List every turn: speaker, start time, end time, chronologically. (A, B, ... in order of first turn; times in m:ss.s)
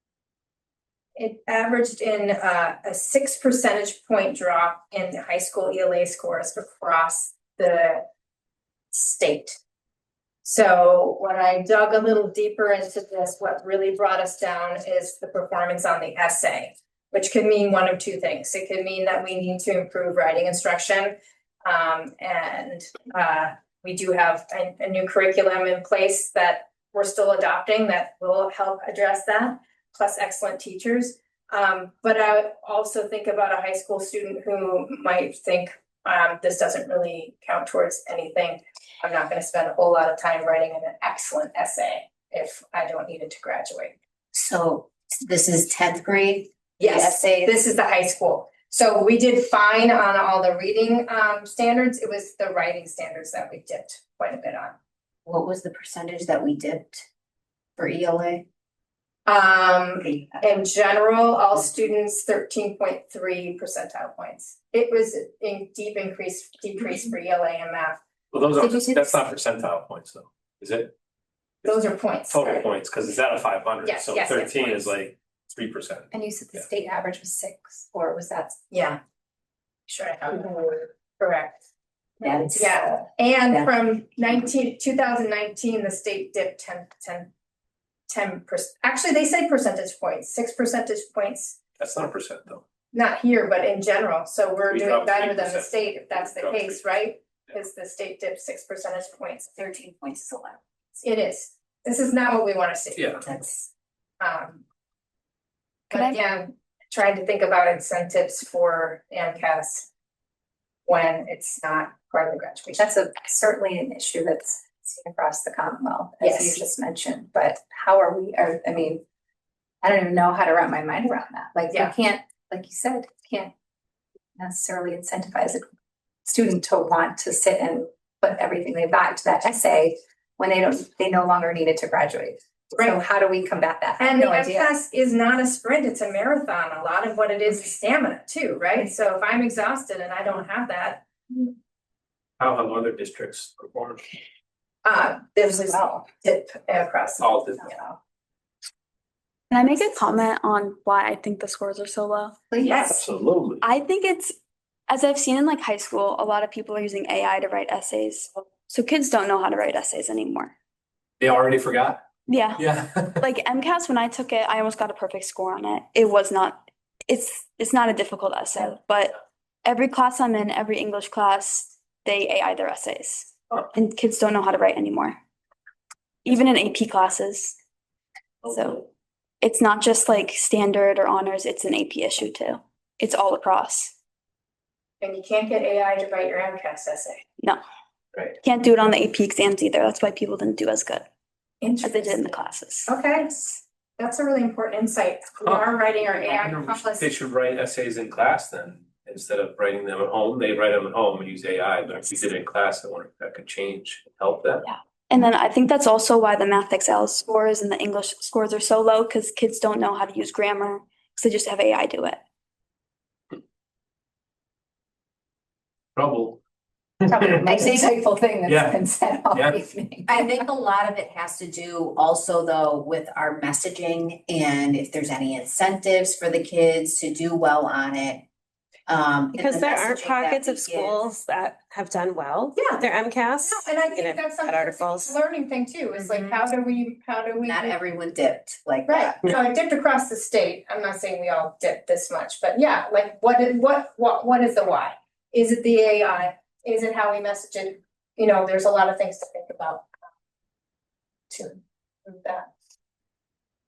0:01.2-0:08.0 A
0:08.9-0:09.6 A
0:10.4-0:44.0 A
0:44.3-0:47.6 B
0:46.8-0:54.8 A
0:55.2-0:57.0 B
0:57.8-0:58.4 B
0:59.2-1:08.0 A
1:00.0-1:00.4 B
1:08.3-1:10.9 C
1:08.6-1:09.0 A
1:11.6-1:16.6 C
1:11.6-1:12.6 A
1:13.8-1:14.9 A
1:16.1-1:18.6 D
1:18.7-1:19.0 A
1:19.9-1:21.6 A
1:22.2-1:23.7 B
1:22.5-1:27.3 A
1:28.1-1:31.6 A
1:31.8-1:32.6 C
1:32.9-1:39.5 A
1:34.7-1:36.8 C
1:39.6-1:40.6 B
1:41.0-1:43.2 A
1:43.0-1:43.2 C
1:43.2-1:43.7 B
1:44.2-1:44.6 A
1:45.9-1:49.9 A
1:50.8-1:52.9 A
1:52.8-1:59.0 D
1:56.2-1:56.6 A
1:59.8-2:03.5 D
2:04.4-2:05.7 D
2:06.2-2:14.7 D
2:14.0-2:21.5 A
2:22.4-2:24.1 C
2:24.8-2:28.0 A
2:27.2-2:27.7 C
2:29.5-2:32.4 E
2:32.5-2:32.8 D
2:32.6-2:33.0 A
2:32.8-2:33.6 C
2:33.6-2:34.3 E
2:34.9-2:40.5 E
2:41.2-2:42.0 C
2:42.3-2:42.6 E
2:42.6-2:43.2 C
2:43.2-2:55.2 E
2:56.2-2:57.6 E
2:58.4-2:58.9 E
2:59.4-3:03.9 E
3:05.0-3:07.2 A
3:08.4-3:11.1 E
3:11.6-3:12.3 A
3:11.8-3:12.9 E
3:12.9-3:17.1 A
3:15.4-3:24.6 C
3:24.6-3:32.2 E
3:35.9-3:36.4 C
3:37.0-3:37.6 C
3:37.1-3:40.3 D
3:38.4-3:38.8 C
3:39.3-3:39.6 C
3:40.1-3:48.2 B
3:48.9-3:51.1 B
3:49.3-3:55.2 F
3:52.6-3:52.9 A
3:53.4-3:57.8 A
3:56.0-3:56.4 F
3:57.4-3:59.2 B
3:58.9-4:09.9 A
4:11.3-4:12.5 A